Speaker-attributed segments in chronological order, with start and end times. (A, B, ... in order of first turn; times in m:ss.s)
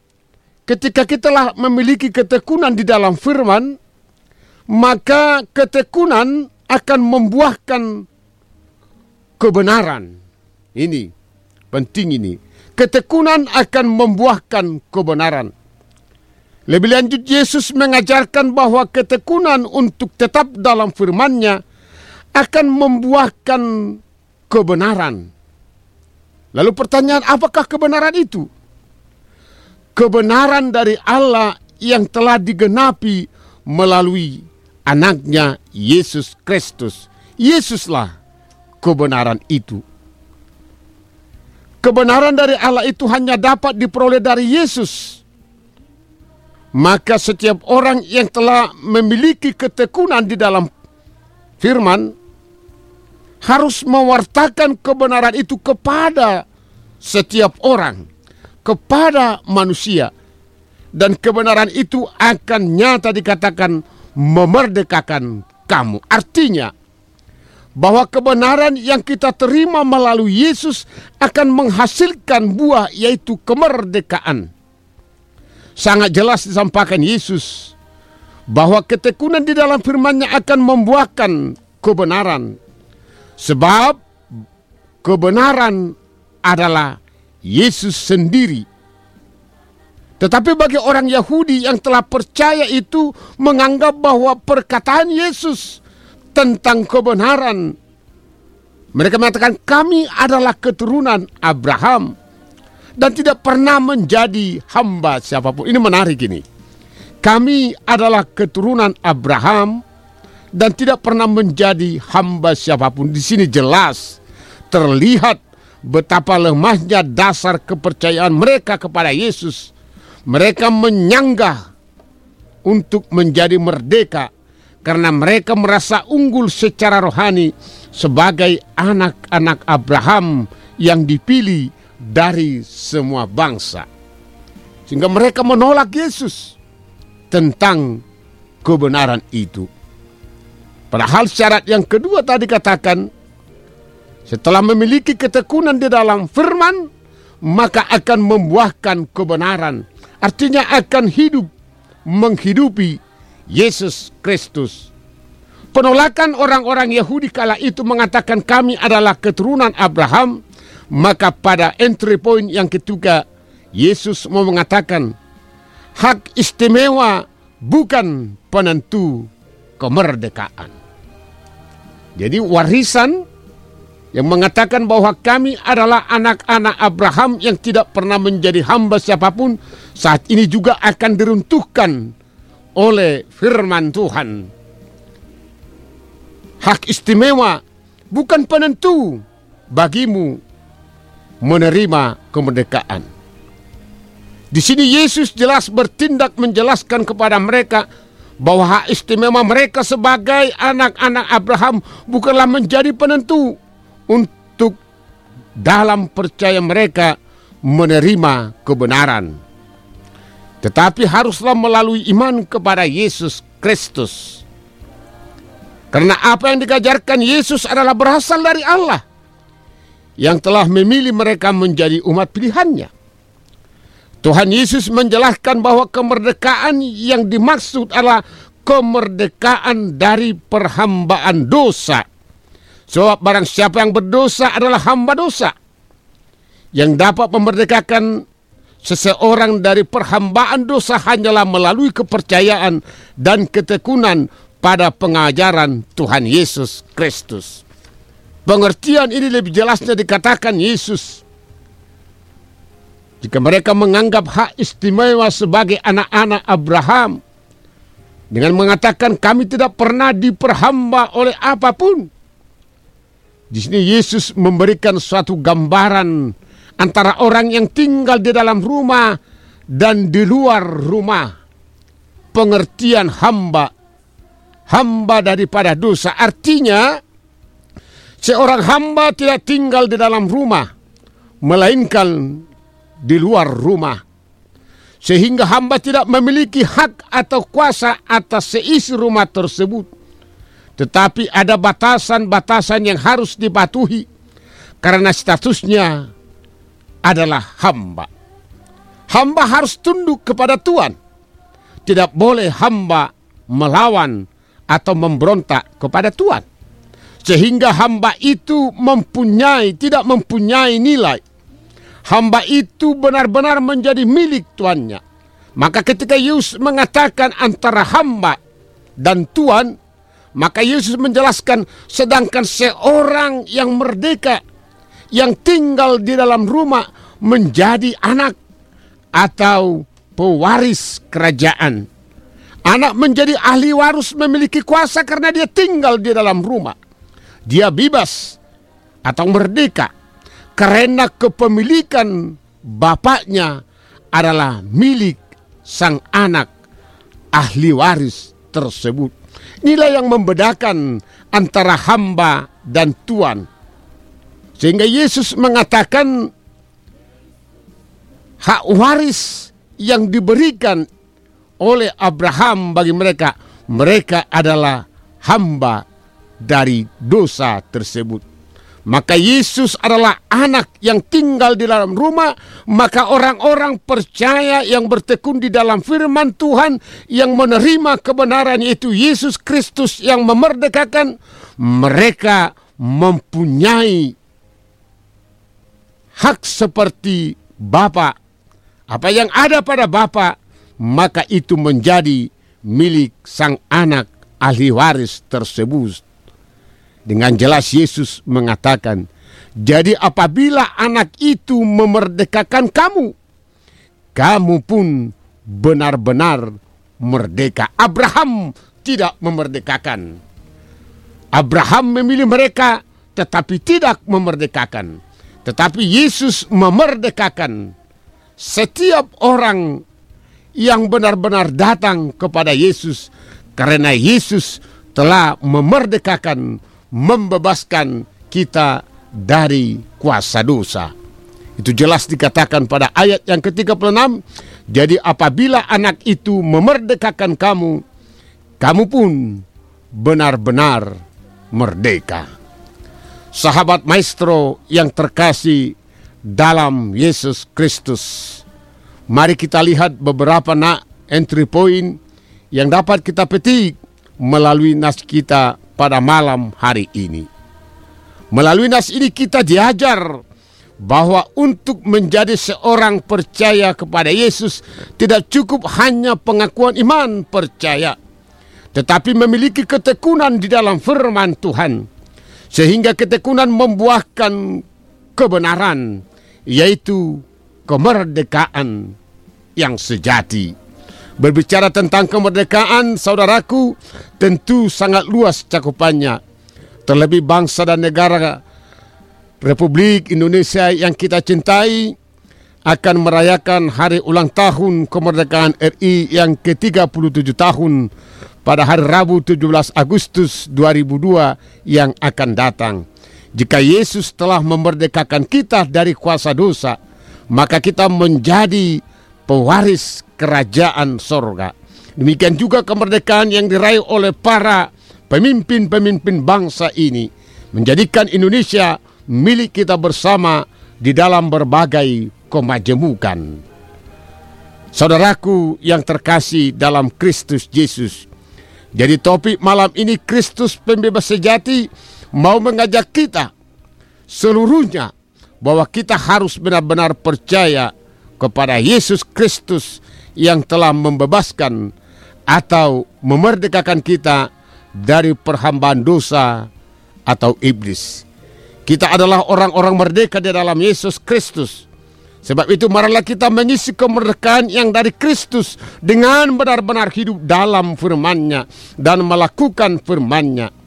0:00.7-0:03.8 A
0:04.7-0:08.0 A
0:09.4-0:10.1 A
0:10.7-0:11.1 A
0:11.7-0:15.5 A
0:16.7-0:21.6 A
0:22.3-0:25.3 A
0:26.5-0:28.5 A
0:29.9-0:38.1 A
0:38.8-0:39.8 A
0:41.8-0:45.2 A
0:46.7-0:50.7 A
0:51.6-0:52.1 A
0:53.4-0:56.4 A
0:57.0-0:58.0 A
0:58.6-1:00.1 A
1:00.9-1:06.7 A
1:07.8-1:14.5 A
1:15.8-1:17.7 A
1:18.5-1:22.6 A
1:23.4-1:24.0 A
1:25.0-1:28.6 A
1:30.2-1:35.8 A
1:36.3-1:37.7 A
1:38.9-1:42.1 A
1:43.0-1:46.4 A
1:47.2-1:49.8 A
1:50.5-1:54.2 A
1:54.7-1:59.7 A
2:00.3-2:01.6 A
2:02.6-2:04.3 A
2:04.8-2:13.9 A
2:14.9-2:16.6 A
2:17.3-2:18.0 A
2:18.6-2:19.7 A
2:20.9-2:23.1 A
2:24.3-2:26.9 A
2:27.4-2:31.5 A
2:32.0-2:33.0 A
2:33.5-2:34.9 A
2:35.7-2:40.4 A
2:40.9-2:43.2 A
2:43.8-2:45.1 A
2:46.0-2:49.3 A
2:49.8-2:50.7 A
2:52.2-2:53.2 A
2:54.1-3:02.1 A
3:02.8-3:04.5 A
3:06.6-3:10.4 A
3:11.4-3:13.1 A
3:14.5-3:17.9 A
3:18.4-3:23.6 A
3:24.1-3:24.8 A
3:25.6-3:29.4 A
3:30.6-3:34.4 A
3:35.9-3:39.0 A
3:40.2-3:42.9 A
3:44.2-3:52.0 A
3:52.9-3:55.5 A
3:56.7-3:58.2 A
3:58.8-4:07.6 A
4:08.4-4:11.2 A
4:13.2-4:17.2 A
4:18.3-4:22.1 A
4:23.5-4:29.2 A
4:29.7-4:31.3 A
4:32.3-4:33.7 A
4:34.7-4:37.0 A
4:38.2-4:40.7 A
4:41.4-4:42.4 A
4:43.0-4:44.0 A
4:45.0-4:49.9 A
4:50.8-4:54.1 A
4:54.8-4:56.1 A
4:57.0-4:58.1 A
4:59.1-5:01.0 A
5:01.9-5:06.4 A
5:07.2-5:11.2 A
5:12.0-5:15.0 A
5:15.6-5:18.4 A
5:19.0-5:19.7 A
5:20.4-5:24.4 A
5:25.1-5:28.4 A
5:29.2-5:31.9 A
5:32.6-5:36.8 A
5:37.5-5:38.4 A
5:39.0-5:39.9 A
5:40.6-5:43.6 A
5:44.1-5:46.5 A
5:47.3-5:49.1 A
5:49.6-5:53.5 A
5:54.6-5:56.3 A
5:58.4-6:00.9 A
6:01.6-6:05.8 A
6:06.4-6:08.2 A
6:08.9-6:24.1 A
6:26.2-6:28.1 A
6:28.9-6:36.0 A
6:37.1-6:39.0 A
6:39.6-6:43.1 A
6:44.1-6:50.2 A
6:51.3-6:57.7 A
6:58.4-6:59.8 A
7:00.6-7:10.9 A
7:11.6-7:14.2 A
7:14.7-7:17.8 A
7:18.6-7:21.0 A
7:21.5-7:22.2 A
7:23.3-7:28.4 A
7:29.1-7:32.0 A
7:32.5-7:37.3 A
7:38.3-7:40.2 A
7:40.8-7:48.0 A
7:48.7-7:51.9 A
7:52.5-7:54.6 A
7:55.2-7:58.9 A
7:59.6-8:00.5 A
8:01.2-8:06.2 A
8:06.9-8:08.4 A
8:09.4-8:12.0 A
8:12.6-8:17.9 A
8:18.4-8:22.8 A
8:23.4-8:26.8 A
8:27.3-8:43.4 A
8:44.7-8:48.1 A
8:48.7-8:53.3 A
8:54.1-9:01.7 A
9:02.3-9:06.5 A
9:07.1-9:08.0 A
9:08.6-9:11.6 A
9:12.2-9:20.5 A